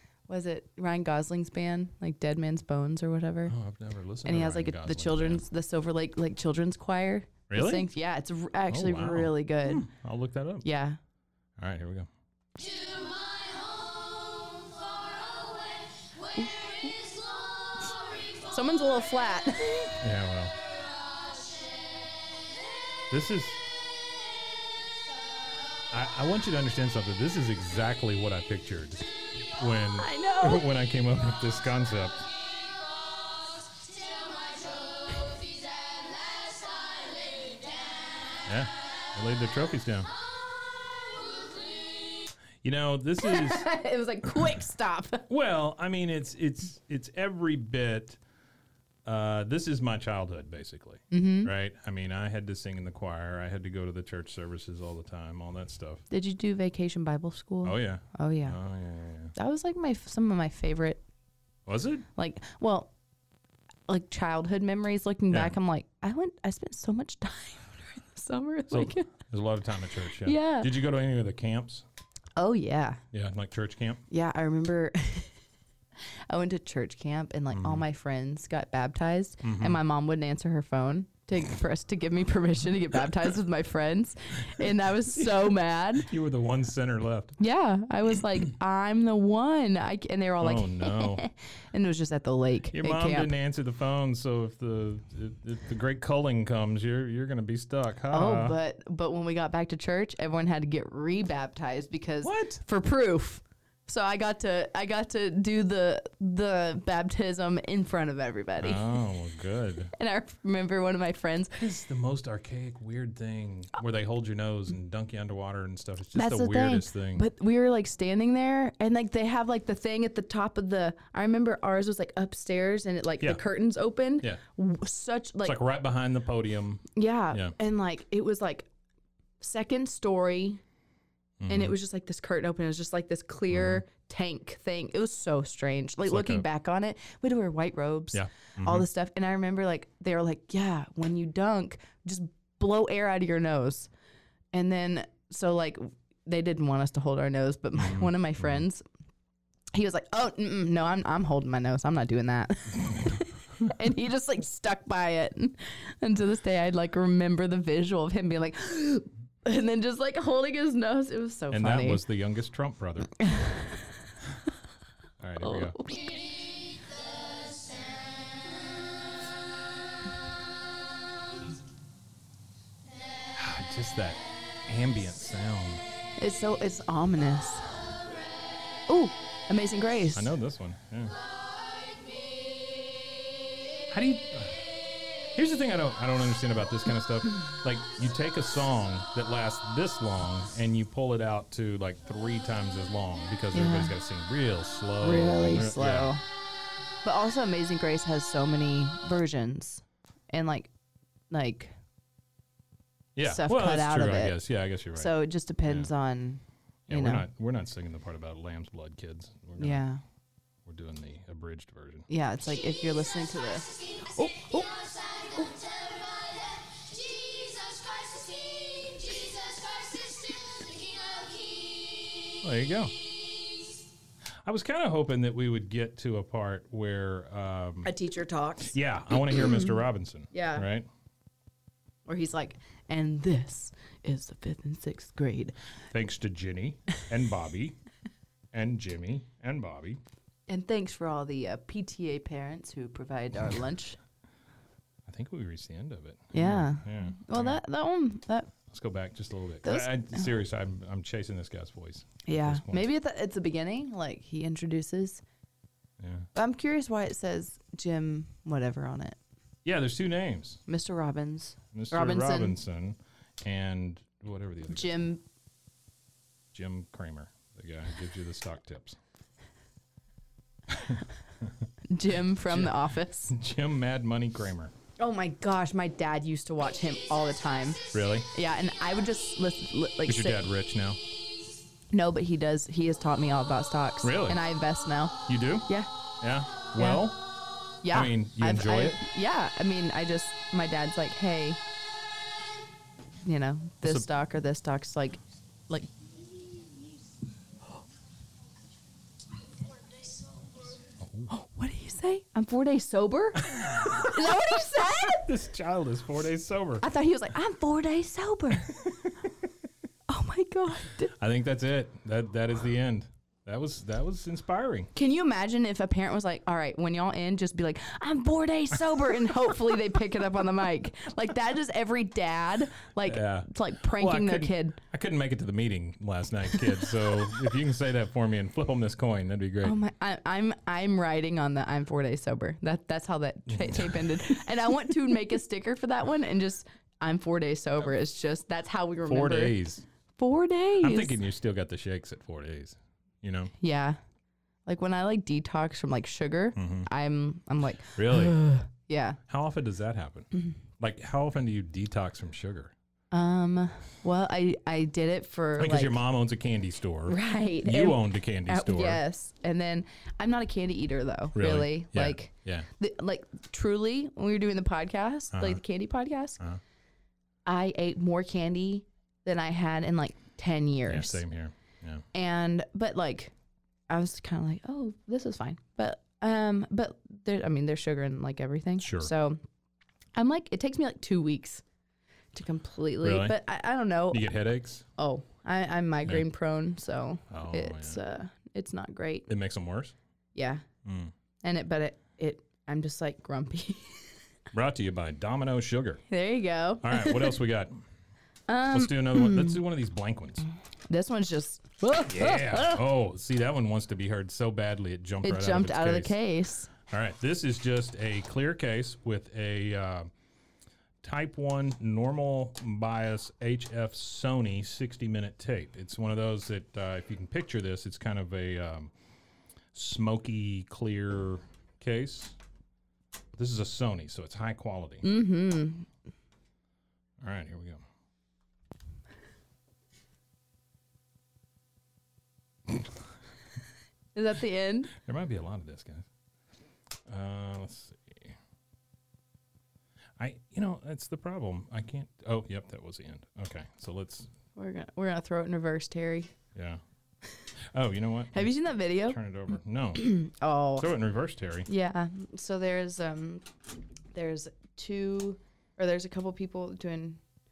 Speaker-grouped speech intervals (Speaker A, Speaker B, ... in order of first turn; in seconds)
Speaker A: 0.3-3.5, 4.2-9.9, 10.6-11.0, 16.3-16.9, 18.4-20.0, 30.0-30.6, 43.2-45.2, 51.1-51.5, 56.1-58.6, 59.3-61.0, 62.1-62.9, 63.9-69.1, 70.2-70.7, 72.3-73.0, 74.1-75.3, 76.3-86.1, 87.4-93.3, 98.1-108.8, 110.0-111.6, 116.1-125.6, 127.0-128.7, 129.4-130.6, 131.5-143.9, 144.5-148.8, 149.7-162.0, 163.2-163.8, 165.4-165.9, 176.2-177.9, 178.9-180.3, 193.5-193.9, 195.0-196.2, 197.0-200.7, 201.3-201.7, 203.2-204.4, 204.9-207.2, 209.6-210.0, 212.1-215.6, 227.8-229.8, 230.3-230.7, 232.1-235.6, 240.5-244.0, 246.3-248.5, 249.6-250.3, 252.2-255.2, 256.3-259.2, 260.7-262.6, 264.7-265.2, 271.9-273.3, 275.0-280.4, 281.9-285.1, 286.8-287.1, 287.8-291.6, 293.2-295.9, 301.3-305.3, 306.8-308.8, 310.1-311.1, 314.9-324.8, 329.6-339.6, 340.2-341.2, 343.6-344.0, 344.6-349.2, 353.1-356.0, 357.1-366.4, 367.4-371.2, 372.1-373.3, 373.9-379.4, 380.1-381.6, 382.3-384.3, 385.0-389.3, 390.3-390.6, 391.4-394.0, 396.1-397.4, 398.5-399.6, 400.9-402.8, 405.2-406.7, 425.0-425.9, 434.1-434.9, 444.6-446.3, 448.3-449.2, 449.9-450.9, 451.6-453.5, 454.1-457.2
Speaker B: 3.5-5.4, 7.5-7.9, 8.7-10.7, 11.6-12.1, 20.0-20.6, 23.1-23.6, 25.9-32.2, 38.4-40.1, 42.6-43.7, 45.3-48.2, 49.0-56.0, 57.6-59.3, 61.7-62.1, 68.7-71.8, 73.1-74.0, 77.5-77.8, 79.4-79.8, 84.6-87.4, 90.4-91.3, 92.7-98.6, 102.2-102.6, 108.6-109.9, 111.6-117.2, 125.4-127.5, 131.4-131.7, 133.5-133.8, 136.0-136.4, 138.1-138.9, 147.8-148.6, 161.5-163.1, 165.2-165.8, 173.3-175.8, 180.1-181.2, 183.9-184.6, 185.3-196.1, 203.1-205.1, 205.7-205.9, 206.9-209.8, 210.7-212.1, 222.4-222.9, 224.4-227.9, 228.6-230.9, 235.9-237.8, 238.5-240.0, 245.1-247.6, 248.7-252.9, 256.0-256.3, 259.6-260.6, 261.7-265.1, 266.5-269.0, 270.7-271.5, 272.4-274.7, 277.9-278.3, 280.0-281.0, 284.0-284.4, 285.3-285.7, 286.2-287.2, 287.9-289.0, 301.0-301.3, 303.4-306.8, 308.7-309.0, 311.1-314.9, 323.0-329.8, 333.5-334.4, 339.1-339.8, 340.8-343.5, 346.5-346.9, 347.9-348.4, 349.3-352.7, 355.6-359.0, 361.3-362.7, 365.3-365.6, 370.9-372.0, 378.8-379.1, 383.0-383.4, 384.1-384.9, 387.3-388.0, 389.3-389.9, 390.8-391.1, 394.5-396.0, 396.8-397.8, 398.7-400.4, 402.1-406.1, 406.9-410.1, 411.0-418.9, 419.7-422.4, 423.4-425.1, 427.2-427.8, 432.7-432.9, 434.9-436.1, 437.1-438.4, 440.2-444.3, 446.5-446.8, 447.7-450.1, 450.8-451.7
Speaker C: 12.6-15.8, 32.7-37.7